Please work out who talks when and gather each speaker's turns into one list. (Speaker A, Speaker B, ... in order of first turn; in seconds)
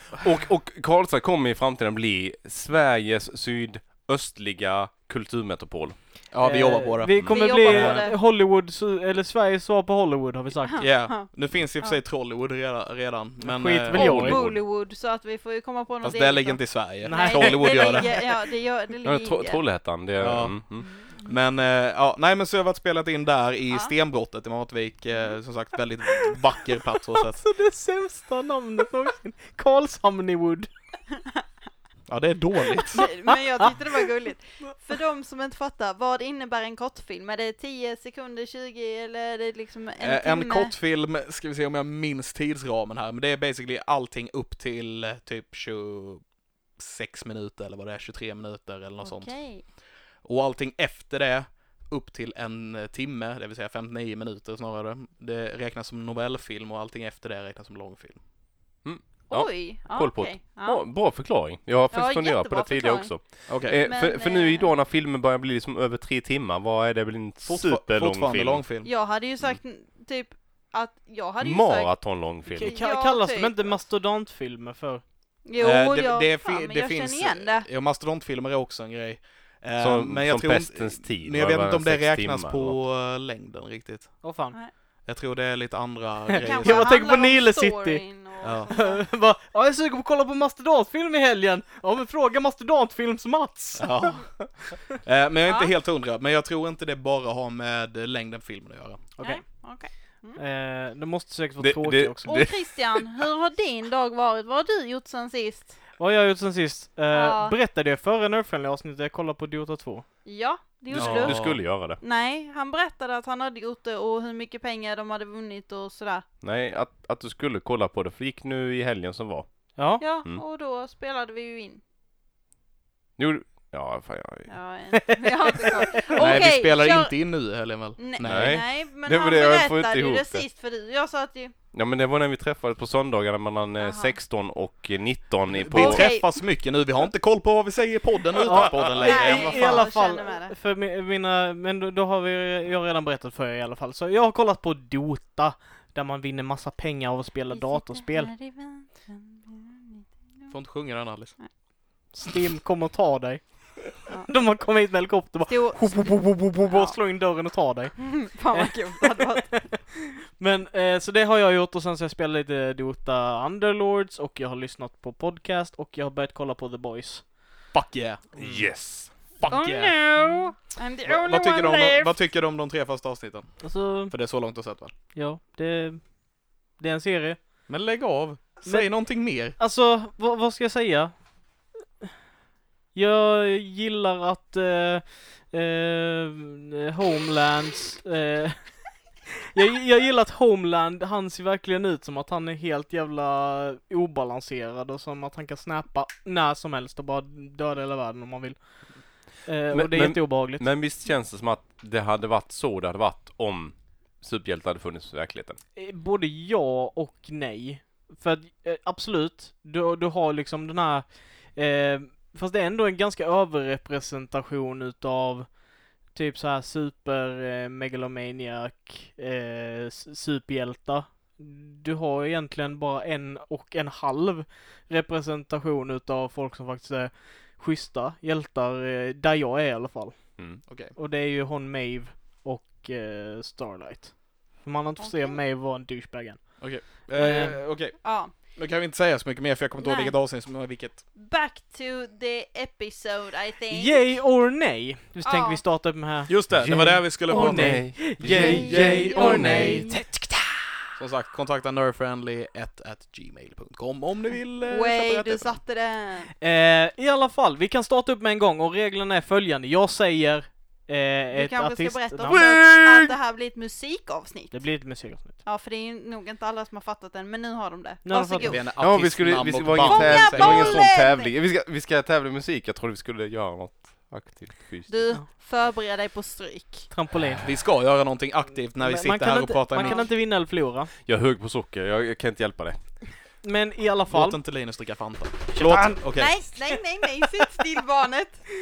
Speaker A: 0.1-6.0, 19.0-20.9, 58.8-68.6, 71.4-72.7, 79.8-82.8, 101.6-103.2, 110.9-112.0, 116.4-119.7, 123.2-124.5, 128.2-130.4, 131.7-136.1, 168.3-169.2, 199.7-205.6, 246.5-249.9, 262.3-263.1, 268.8-275.0, 281.0-282.8
Speaker B: 6.3-8.1, 10.8-14.5, 16.0-18.2, 20.2-27.4, 32.1-33.0, 40.0-46.2, 46.8-49.3, 50.2-58.2, 63.5-63.8, 67.5-68.9, 75.6-84.2, 85.0-86.9, 88.4-88.7, 93.8-99.0, 110.9-111.6, 126.2-128.6, 135.5-139.9, 150.5-151.3, 167.7-168.4, 169.4-169.9, 171.1-174.9, 177.7-179.6, 230.7-230.9, 236.6-241.0, 246.3-249.9, 250.9-255.6, 268.4-270.8, 277.4-280.1, 284.1-286.4
Speaker C: 6.4-10.8, 13.4-14.4, 17.0-18.2, 27.1-30.7, 32.9-34.0, 72.5-75.0, 84.2-84.6, 86.3-88.0, 88.7-94.1, 99.2-99.4, 100.3-102.4, 106.0-110.0, 119.8-120.0, 125.0-126.1, 138.4-148.3, 152.1-167.3, 168.4-168.6, 173.6-174.1, 175.1-176.2, 176.7-177.4, 178.6-178.9, 179.5-181.1, 182.9-188.8, 189.5-200.7, 205.8-215.5, 216.1-237.6, 243.7-246.7, 247.3-250.6, 256.4-262.4, 264.5-265.3, 268.0-268.6, 276.9-277.4, 278.8-280.9, 283.4-284.4, 285.5-286.0
Speaker D: 7.2-8.2, 10.6-11.3, 13.9-19.6, 20.8-21.3, 32.9-40.7, 49.0-49.6, 59.3-60.8, 61.9-64.7, 68.8-73.8, 75.5-77.7, 86.4-89.0, 95.5-95.7, 99.2-100.4, 102.2-105.8, 107.1-107.5, 110.2-116.2, 120.0-121.8, 124.5-127.1, 128.0-131.5, 133.8-134.1, 135.7-136.3, 138.8-140.5, 147.5-150.5, 154.1-154.4, 155.5-157.0, 158.0-159.7, 169.5-172.2, 235.0-235.4, 238.0-238.3, 239.8-240.1, 241.2-244.2, 245.2-245.6, 248.3-249.8, 254.7-256.3, 261.3-268.6, 269.8-271.3, 274.9-276.9, 279.8-280.1, 286.1-288.4